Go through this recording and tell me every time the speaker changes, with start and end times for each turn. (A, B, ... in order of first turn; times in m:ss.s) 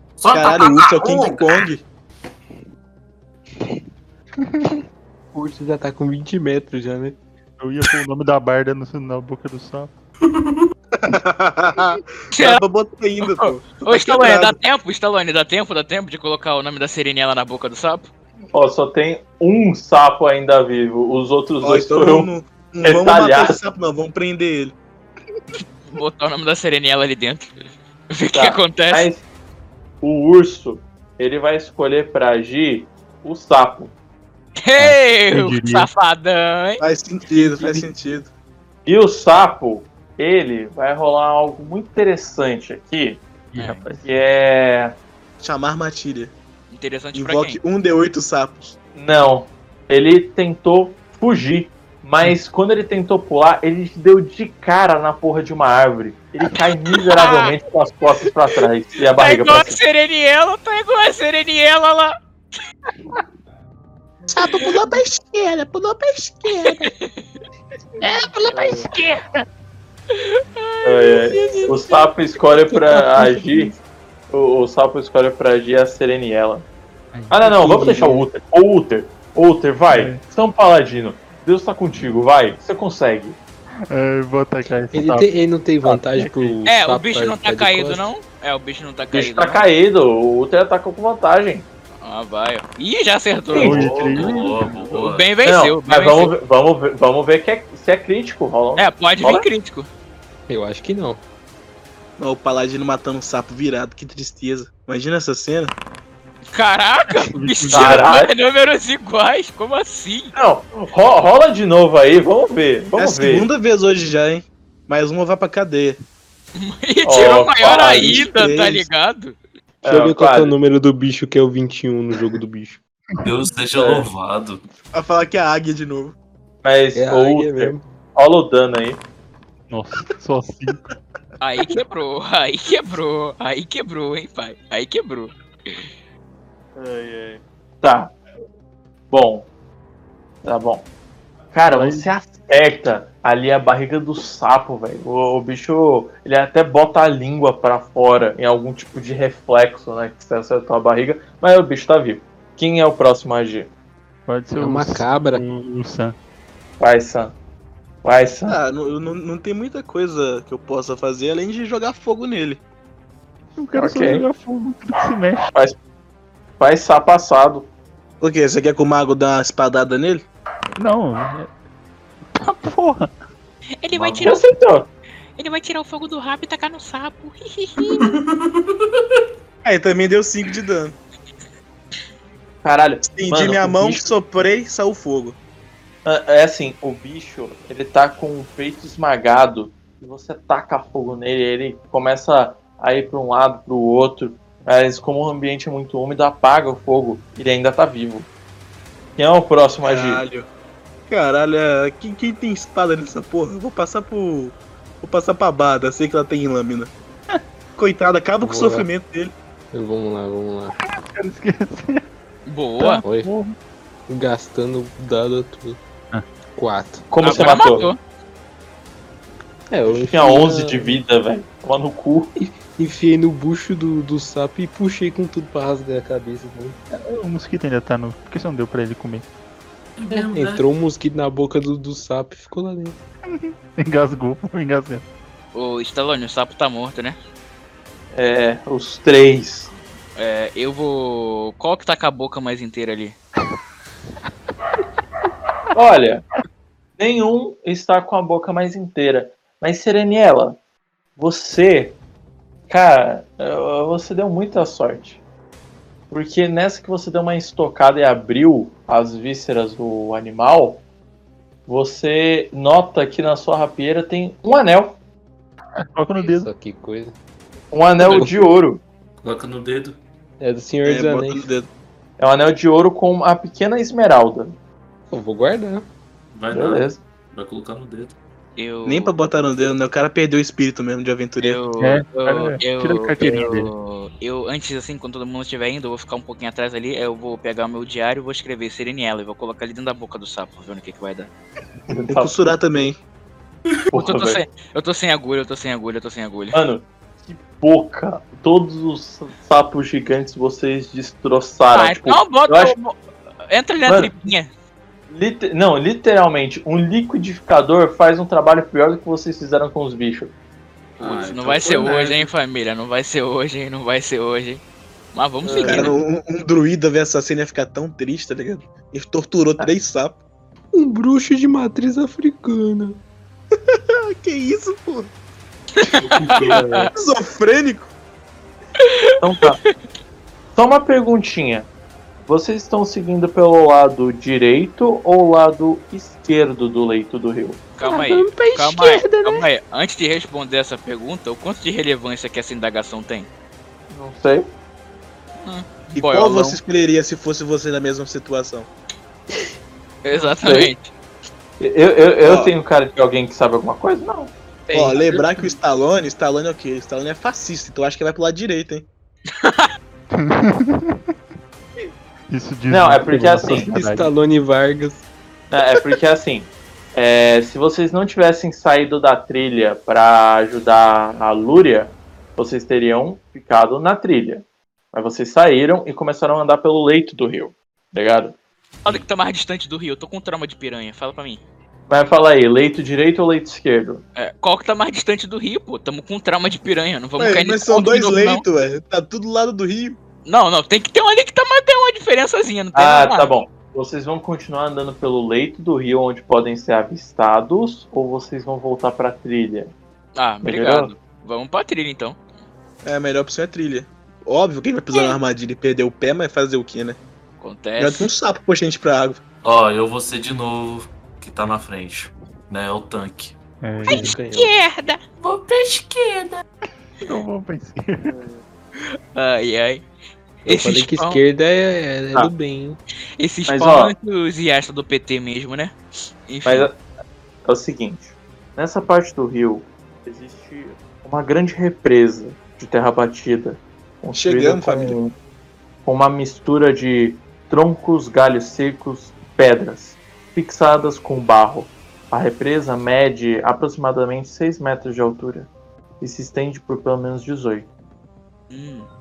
0:00.2-0:01.7 A
0:00.3-0:01.8 B
0:04.4-0:04.8 C
0:05.3-0:07.2 D
0:07.6-0:09.9 C
0:10.3-0:10.7 A
0:10.9-0:14.6 B
0:12.3-0:12.6 E
0:13.2-0:18.1 E
0:18.5-0:22.3 F
0:21.6-0:24.8 B
0:22.8-0:23.6 F
0:25.9-0:27.5 E
0:28.1-0:29.1 E
0:28.3-0:29.2 F
0:30.0-0:33.9 F
0:34.6-0:36.8 E
0:34.8-0:35.9 C
0:36.8-0:38.3 B
0:37.6-0:37.8 D
0:38.9-0:43.2 F
0:43.5-0:44.1 C
0:44.0-0:45.0 F
0:45.4-0:46.3 B
0:46.7-0:47.6 E
0:47.1-0:48.8 B
0:49.0-0:59.8 F
0:57.2-0:57.6 E
0:59.2-1:02.1 E
1:04.3-1:06.9 B
1:06.5-1:07.2 E
1:08.0-1:09.5 C
1:08.5-1:08.9 F
1:10.1-1:11.8 E
1:10.8-1:13.8 F
1:11.3-1:13.8 D
1:14.3-1:16.7 F
1:17.1-1:17.4 C
1:17.3-1:23.4 F
1:17.4-1:18.3 D
1:19.9-1:20.2 C
1:23.9-1:25.4 C
1:24.9-1:28.1 D
1:25.8-1:26.6 F
1:26.7-1:29.6 E
1:29.1-1:31.7 F
1:32.0-1:34.0 E
1:33.5-1:34.2 F
1:33.6-1:34.8 C
1:33.7-1:35.3 A
1:34.9-1:36.3 E
1:35.4-1:39.5 F
1:38.8-1:39.9 E
1:40.5-1:41.2 D
1:42.2-1:45.7 B
1:46.5-1:50.3 E
1:47.2-1:48.0 C
1:47.7-1:48.3 F
1:50.3-1:53.5 F
1:52.9-1:56.0 B
1:56.6-1:59.4 E
1:57.0-1:58.2 F
1:58.0-1:58.9 B
1:59.8-2:00.6 F
1:59.9-2:02.8 D
2:03.2-2:04.6 A
2:03.8-2:04.1 F
2:04.9-2:06.2 B
2:06.6-2:09.0 F
2:07.0-2:07.8 D
2:09.7-2:10.9 C
2:11.4-2:15.9 E
2:16.8-2:18.2 F
2:19.1-2:19.5 F
2:20.4-2:20.9 F
2:21.5-2:33.7 F
2:21.7-2:22.1 C
2:34.3-2:36.2 C
2:34.6-2:35.4 D
2:36.8-2:37.4 F
2:38.0-2:38.6 F
2:38.5-2:42.6 B
2:43.6-2:45.5 C
2:43.7-2:44.2 F
2:45.5-2:45.8 F
2:46.6-2:47.7 F
2:48.2-2:50.2 B
2:50.8-2:51.5 C
2:52.4-2:53.1 C
2:53.8-2:54.4 E
2:53.9-2:54.3 B
2:54.2-2:54.9 F
2:55.4-2:58.1 E
2:57.8-2:59.2 A
2:59.6-3:01.0 B
3:02.6-3:04.1 F
3:03.0-3:05.4 B
3:06.0-3:18.3 F
3:19.2-3:20.2 F
3:19.8-3:20.5 B
3:21.1-3:26.9 B
3:27.8-3:29.3 B
3:28.4-3:28.9 D
3:29.7-3:30.7 D
3:30.8-3:32.0 C
3:32.5-3:33.0 E
3:32.8-3:33.6 C
3:34.1-3:35.8 D
3:36.6-3:37.9 D
3:37.1-3:37.9 F
3:37.2-3:38.0 E
3:39.7-3:41.0 D
3:40.1-3:42.3 F
3:42.4-3:46.8 D
3:46.9-3:49.2 C
3:50.0-3:50.6 A
3:50.1-3:53.0 D
3:53.3-3:55.0 C
3:55.5-3:57.2 E
3:58.1-3:59.7 F
4:00.2-4:03.2 E
4:05.7-4:06.2 F
4:07.0-4:10.6 F
4:11.2-4:12.0 F
4:12.7-4:15.2 F
4:16.1-4:20.8 F
4:21.7-4:25.0 F
4:25.8-4:26.5 C
4:26.2-4:27.2 D
4:27.7-4:28.8 F
4:28.0-4:28.3 D
4:29.2-4:30.0 A
4:30.4-4:31.5 D
4:30.8-4:31.7 B
4:32.2-4:34.6 F
4:35.1-4:35.9 D
4:36.3-4:38.2 A
4:36.5-4:37.0 F
4:38.6-4:39.1 E
4:38.8-4:41.6 B
4:41.4-4:51.3 E
4:41.8-4:43.7 C
4:51.9-4:52.6 F
4:52.1-4:53.0 B
4:53.9-4:54.4 F
4:53.9-4:56.6 E
4:56.5-5:02.8 F
5:01.7-5:04.5 E
5:03.8-5:04.1 F
5:05.1-5:10.3 F
5:11.0-5:12.3 D
5:11.3-5:14.6 E
5:15.1-5:16.0 E
5:15.4-5:15.9 F
5:15.6-5:20.2 B
5:20.7-5:23.0 D
5:23.7-5:25.1 B
5:25.8-5:26.9 E
5:25.9-5:26.6 D
5:26.4-5:26.9 F
5:26.9-5:27.9 B
5:28.8-5:29.7 E
5:29.2-5:29.6 F
5:30.6-5:31.7 F
5:32.3-5:37.6 F
5:37.8-5:43.3 E
5:37.8-5:39.5 D
5:43.9-5:44.5 F
5:45.4-5:46.6 E
5:46.0-5:48.7 B
5:50.0-5:50.9 E
5:50.4-5:50.7 F
5:51.6-5:54.3 F
5:52.2-5:52.5 B
5:54.7-5:55.2 E
5:54.7-5:58.9 B
5:59.3-5:59.7 E
6:00.1-6:01.0 C
6:02.3-6:04.1 C
6:02.7-6:03.7 F
6:03.4-6:05.1 D
6:05.5-6:18.4 F
6:18.8-6:21.4 E
6:21.9-6:24.0 F
6:24.2-6:28.4 E
6:27.2-6:30.0 B
6:30.3-6:33.3 E
6:32.8-6:39.7 F
6:40.2-6:42.2 E
6:40.4-6:40.9 F
6:42.8-6:47.0 B
6:44.9-6:45.2 E
6:47.4-6:48.1 E
6:47.8-6:49.2 B
6:49.4-6:53.4 A
6:53.6-6:54.2 C
6:53.9-6:54.6 D
6:53.9-6:55.0 E
6:55.2-6:56.4 A
6:57.0-6:58.2 C
6:58.0-6:58.4 F
6:59.1-6:59.8 E
7:00.5-7:01.2 E
7:00.5-7:02.8 D
7:03.2-7:05.8 E
7:03.5-7:03.9 F
7:06.3-7:06.7 E
7:06.4-7:06.8 F
7:07.4-7:15.2 F
7:14.1-7:15.0 B
7:15.8-7:25.5 F
7:26.0-7:27.7 F
7:28.5-7:28.9 E